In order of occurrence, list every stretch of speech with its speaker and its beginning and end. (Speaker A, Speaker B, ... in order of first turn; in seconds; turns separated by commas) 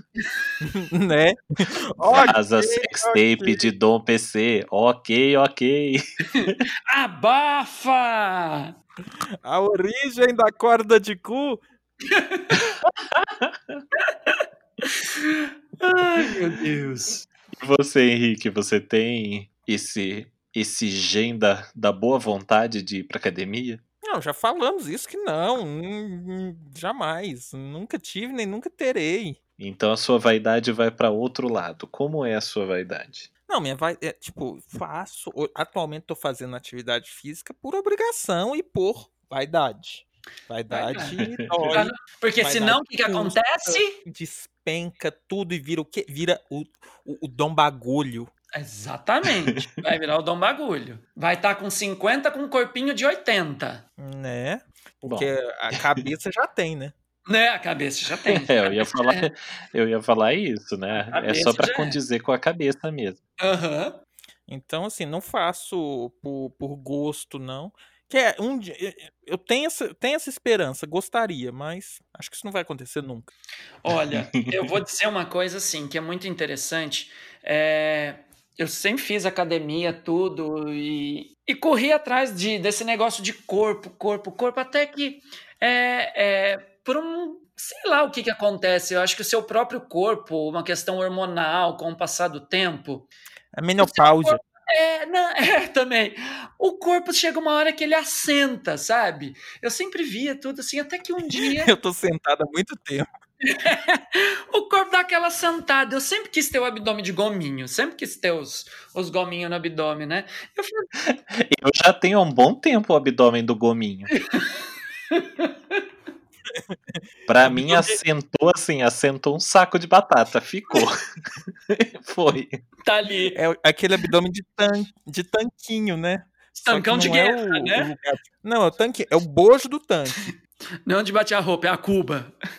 Speaker A: 0.6-3.7, Speaker B: 2.0-6.6, Speaker C: 6.3-8.7, Speaker A: 9.4-11.6, Speaker C: 12.1-12.6, Speaker B: 13.4-13.8, Speaker C: 14.3-17.2, Speaker B: 17.6-23.8, Speaker A: 24.1-29.4, Speaker B: 29.6-33.3, Speaker A: 33.5-48.3, Speaker C: 40.7-43.9, Speaker B: 41.2-41.8, Speaker C: 48.5-53.8, Speaker A: 54.0-56.9, Speaker B: 55.0-56.0, Speaker C: 57.2-59.2, Speaker B: 58.2-63.2, Speaker C: 61.1-62.0, Speaker C: 63.4-64.0, Speaker A: 64.5-73.3, Speaker C: 73.8-93.1, Speaker A: 93.5-94.4, Speaker C: 93.8-101.7, Speaker A: 101.3-103.1, Speaker C: 103.4-110.9, Speaker B: 111.0-114.1, Speaker C: 114.2-115.8, Speaker A: 116.5-117.0, Speaker B: 117.3-121.0, Speaker B: 121.7-122.6, Speaker C: 122.8-123.4, Speaker A: 123.3-130.3, Speaker C: 126.5-127.9, Speaker C: 130.8-132.3